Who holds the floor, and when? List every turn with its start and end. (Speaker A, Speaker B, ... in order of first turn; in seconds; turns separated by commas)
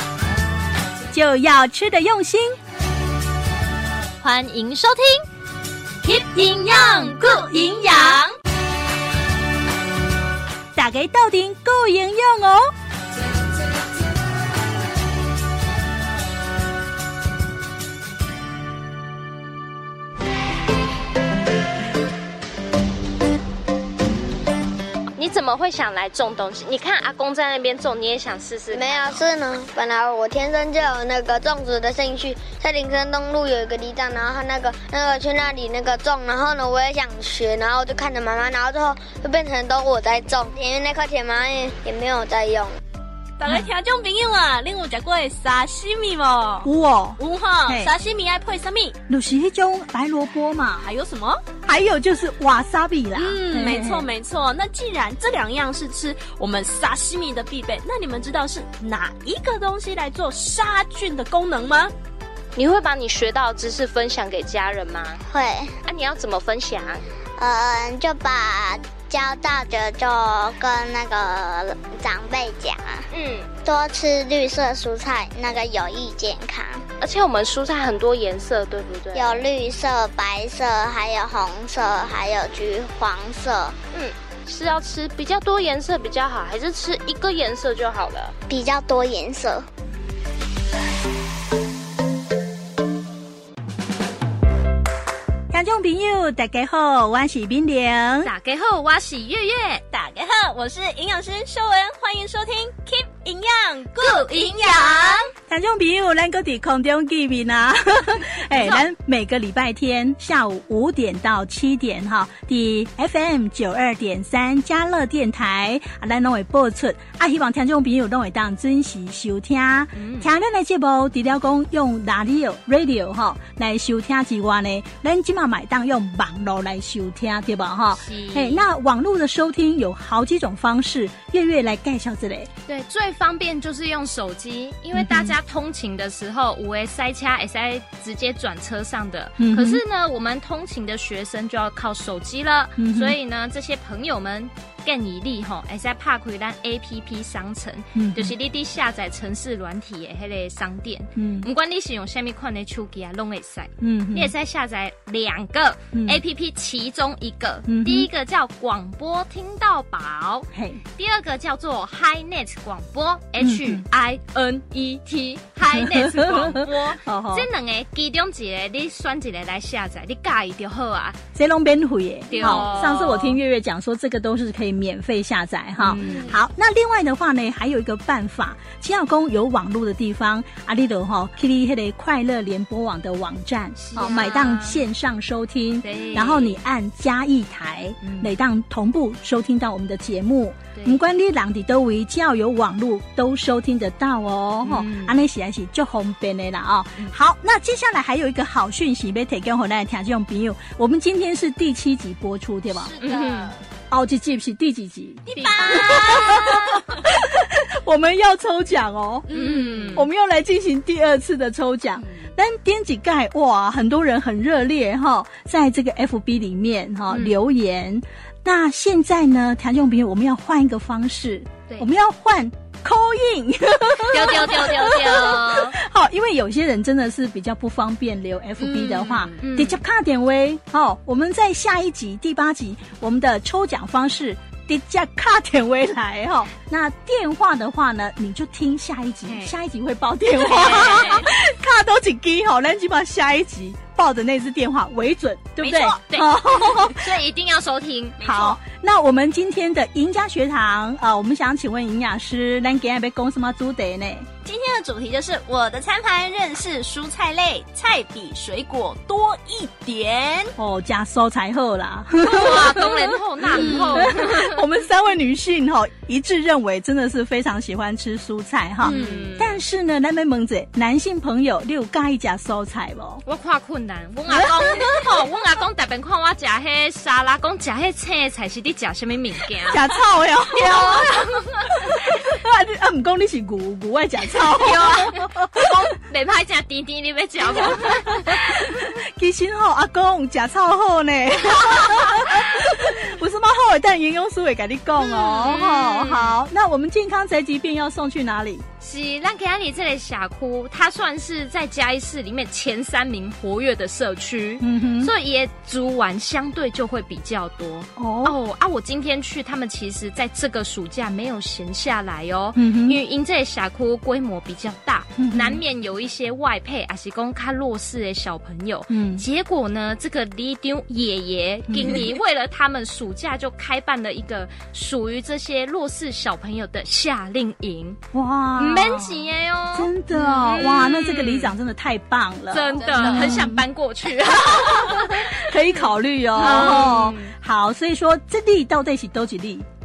Speaker A: 1.1-2.6, Speaker B: 4.2-5.2, Speaker B: 6.0-8.2, Speaker C: 6.1-8.3, Speaker A: 10.7-12.7, Speaker D: 25.1-29.3, Speaker E: 28.7-42.8, Speaker C: 43.4-49.0, Speaker A: 46.6-47.9, Speaker A: 49.1-50.9, Speaker C: 50.8-51.4, Speaker A: 51.6-54.1, Speaker C: 53.1-61.9, Speaker D: 62.5-65.2, Speaker E: 65.3-65.7, Speaker D: 65.8-67.0, Speaker E: 67.4-76.9, Speaker D: 73.1-73.5, Speaker D: 77.0-79.5, Speaker E: 79.1-83.8, Speaker D: 83.9-88.4, Speaker E: 88.5-89.7, Speaker A: 95.5-98.3, Speaker B: 98.2-99.8, Speaker C: 99.9-105.3, Speaker B: 104.0-105.3, Speaker A: 105.5-132.5, Speaker B: 120.0-120.3, Speaker B: 128.0-128.6, Speaker B: 132.7-171.2, Speaker A: 134.9-135.3, Speaker A: 139.4-139.8, Speaker A: 142.8-143.2, Speaker A: 147.9-148.3, Speaker A: 151.2-151.5, Speaker A: 153.8-154.3, Speaker A: 155.9-156.2, Speaker A: 157.7-158.1, Speaker A: 160.5-160.8, Speaker A: 163.4-163.8, Speaker A: 165.7-167.5, Speaker A: 171.3-202.9, Speaker B: 172.3-173.3, Speaker C: 172.3-173.2, Speaker B: 175.8-176.3, Speaker C: 176.0-176.4, Speaker B: 183.8-184.8, Speaker B: 185.8-186.6, Speaker B: 188.0-188.3, Speaker B: 194.6-195.2, Speaker C: 202.7-203.6, Speaker B: 203.0-203.5, Speaker A: 203.9-209.3, Speaker C: 205.2-207.0, Speaker B: 205.3-206.6, Speaker C: 209.3-210.1, Speaker B: 209.3-210.1, Speaker A: 209.9-247.2, Speaker B: 217.1-217.3, Speaker B: 224.0-225.8, Speaker C: 228.6-229.4, Speaker B: 229.4-229.8, Speaker B: 239.3-239.5, Speaker C: 240.5-241.2, Speaker B: 240.5-241.3, Speaker C: 245.6-246.0, Speaker B: 245.7-248.4, Speaker C: 248.2-248.6, Speaker A: 248.2-254.3, Speaker C: 254.4-260.5, Speaker A: 260.6-273.2, Speaker B: 262.2-264.6, Speaker C: 263.6-264.1, Speaker B: 268.8-269.6, Speaker C: 268.8-269.4, Speaker B: 273.2-279.8, Speaker A: 274.3-275.1, Speaker A: 279.7-281.2, Speaker B: 280.5-282.0, Speaker A: 281.8-285.8, Speaker B: 284.5-288.9, Speaker A: 287.5-298.6, Speaker B: 295.0-296.4, Speaker B: 298.8-328.0, Speaker A: 304.6-305.1, Speaker A: 308.0-308.4, Speaker A: 312.6-313.0, Speaker A: 315.2-315.6, Speaker A: 318.9-319.2, Speaker A: 321.7-322.1, Speaker A: 328.1-329.2, Speaker B: 328.6-331.5, Speaker A: 329.7-333.6, Speaker B: 332.5-337.3, Speaker C: 332.8-333.5, Speaker A: 334.3-339.7, Speaker C: 336.4-336.8